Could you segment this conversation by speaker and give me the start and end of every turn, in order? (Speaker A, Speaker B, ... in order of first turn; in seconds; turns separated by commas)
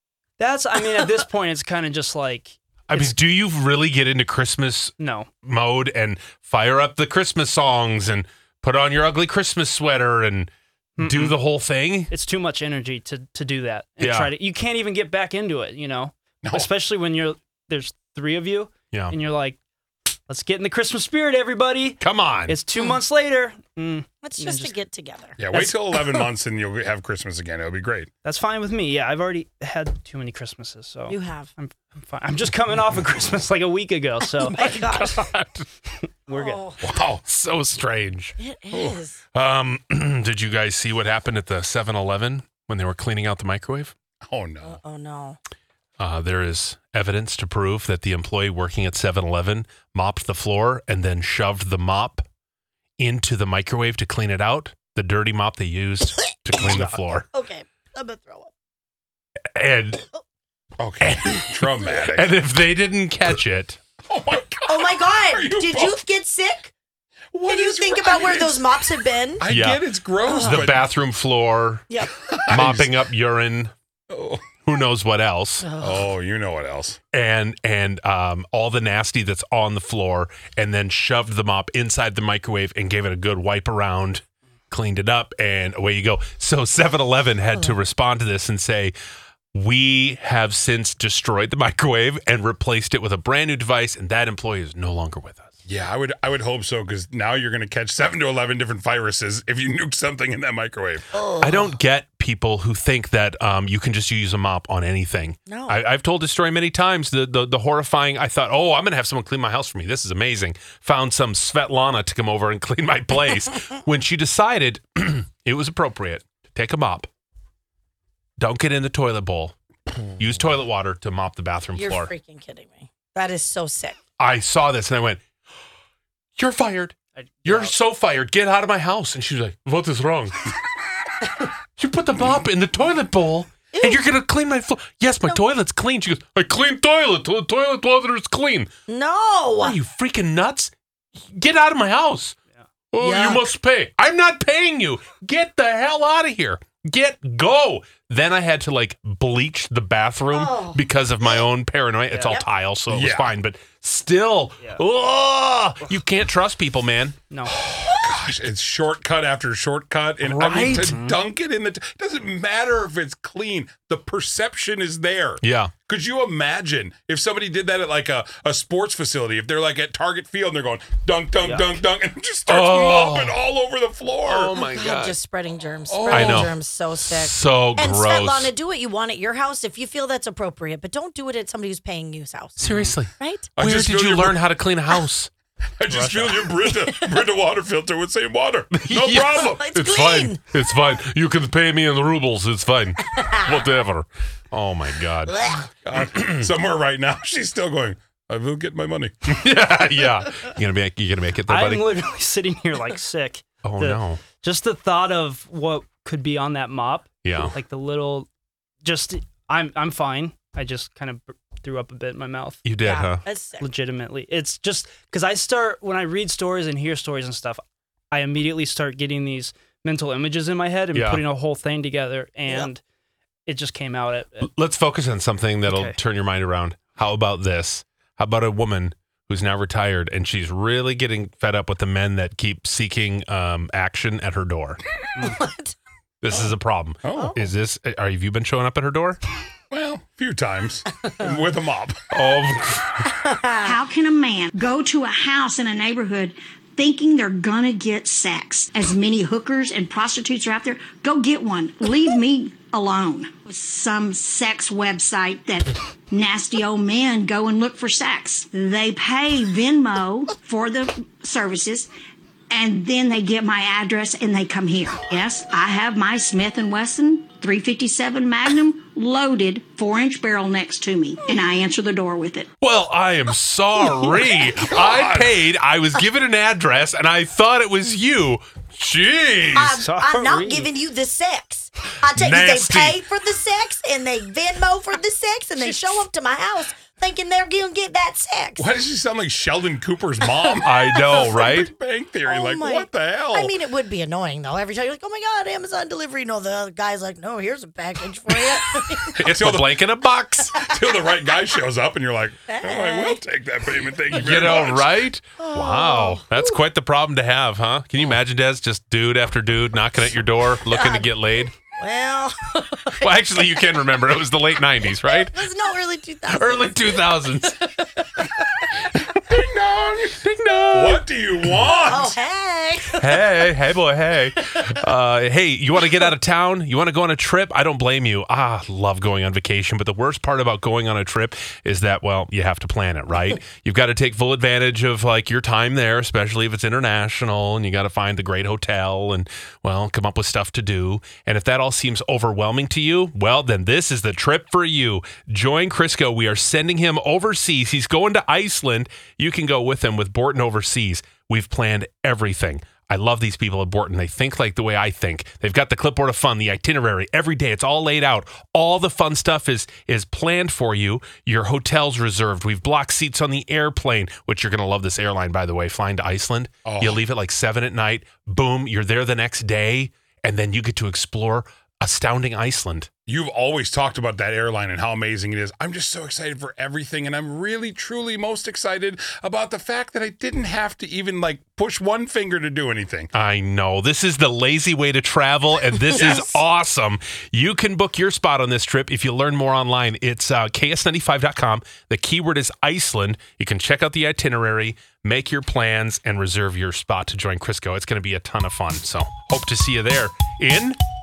Speaker A: 0.4-3.1, Speaker B: 2.9-12.1, Speaker A: 5.0-5.3, Speaker A: 11.0-11.4, Speaker A: 12.1-19.6, Speaker B: 14.0-14.3, Speaker A: 20.3-24.7, Speaker B: 22.0-22.6, Speaker C: 24.2-26.2, Speaker D: 25.4-28.1, Speaker A: 28.2-34.6, Speaker C: 31.1-31.5, Speaker C: 34.4-35.2, Speaker B: 34.5-35.7, Speaker C: 36.3-36.8, Speaker A: 36.3-36.6, Speaker D: 36.8-37.2, Speaker B: 37.2-38.3, Speaker C: 38.4-39.2, Speaker D: 38.7-39.0, Speaker B: 39.3-43.9, Speaker D: 44.2-44.8, Speaker C: 44.6-45.4, Speaker B: 46.0-52.2, Speaker B: 53.0-57.2, Speaker C: 56.5-58.5, Speaker A: 56.6-57.0, Speaker B: 59.5-60.0, Speaker D: 60.8-62.4, Speaker B: 61.0-63.8, Speaker D: 64.1-66.0, Speaker C: 64.7-66.7, Speaker D: 67.3-68.7, Speaker C: 67.5-69.4, Speaker D: 69.4-70.9, Speaker B: 69.5-69.8, Speaker C: 70.2-70.6, Speaker B: 70.3-71.9, Speaker D: 72.3-73.0, Speaker B: 72.5-73.7, Speaker D: 74.1-74.5, Speaker B: 74.6-75.7, Speaker C: 75.6-76.1, Speaker D: 75.8-77.0, Speaker B: 77.1-88.9, Speaker B: 89.5-95.5, Speaker D: 95.7-101.1, Speaker C: 101.1-101.7, Speaker B: 101.4-117.1, Speaker C: 105.5-105.8, Speaker B: 118.4-119.5, Speaker B: 120.2-122.1, Speaker C: 121.8-124.0, Speaker B: 124.2-125.2, Speaker B: 126.4-130.4, Speaker A: 127.4-127.7, Speaker B: 131.8-138.7, Speaker C: 133.7-134.0, Speaker C: 138.9-139.8, Speaker B: 139.6-142.3, Speaker B: 142.9-157.2, Speaker C: 143.0-143.5, Speaker C: 150.3-150.8, Speaker D: 152.9-153.3, Speaker A: 157.3-157.5, Speaker D: 157.5-174.5, Speaker B: 160.2-161.0, Speaker A: 160.7-161.2, Speaker B: 165.4-165.7, Speaker A: 171.4-171.8, Speaker B: 172.4-173.3, Speaker B: 174.2-175.2, Speaker C: 174.5-182.6, Speaker D: 175.9-176.5, Speaker B: 176.1-178.5, Speaker B: 182.6-185.3, Speaker A: 182.6-183.0, Speaker C: 183.2-183.5, Speaker D: 183.6-184.4, Speaker D: 185.8-189.6, Speaker A: 185.9-186.5, Speaker B: 188.7-196.5, Speaker C: 189.6-190.4, Speaker C: 193.0-193.6, Speaker C: 195.2-195.7, Speaker D: 195.8-199.2, Speaker B: 199.2-201.8, Speaker A: 201.5-208.3, Speaker B: 203.6-204.2, Speaker B: 207.2-207.5, Speaker A: 208.8-212.6, Speaker B: 212.6-213.2, Speaker C: 212.8-213.7, Speaker A: 213.6-222.8, Speaker B: 220.9-221.2, Speaker A: 223.5-224.5, Speaker B: 224.4-234.8, Speaker A: 225.7-225.9, Speaker C: 235.2-235.8, Speaker B: 236.2-239.2, Speaker D: 237.0-237.4, Speaker D: 239.7-242.1, Speaker B: 242.1-243.1, Speaker C: 243.1-243.8, Speaker E: 243.6-261.9, Speaker E: 262.5-272.5, Speaker B: 272.6-279.8, Speaker D: 274.6-275.3, Speaker C: 279.5-288.6, Speaker A: 279.8-280.7, Speaker B: 282.0-283.0, Speaker D: 288.6-293.5, Speaker B: 290.6-291.7, Speaker C: 292.2-299.2, Speaker B: 299.1-300.6, Speaker D: 299.2-299.8, Speaker D: 300.6-304.9, Speaker C: 302.5-303.2, Speaker B: 304.1-311.5, Speaker C: 305.4-306.6, Speaker C: 310.7-311.1, Speaker C: 311.7-313.2, Speaker B: 313.0-315.4, Speaker C: 315.0-318.6, Speaker B: 316.3-317.7, Speaker B: 319.1-319.4, Speaker D: 319.1-320.2, Speaker B: 320.0-321.7, Speaker D: 320.7-322.1, Speaker C: 321.8-323.2, Speaker B: 323.0-372.9, Speaker D: 366.6-367.0, Speaker D: 373.1-383.1, Speaker B: 383.1-400.8, Speaker D: 385.9-386.4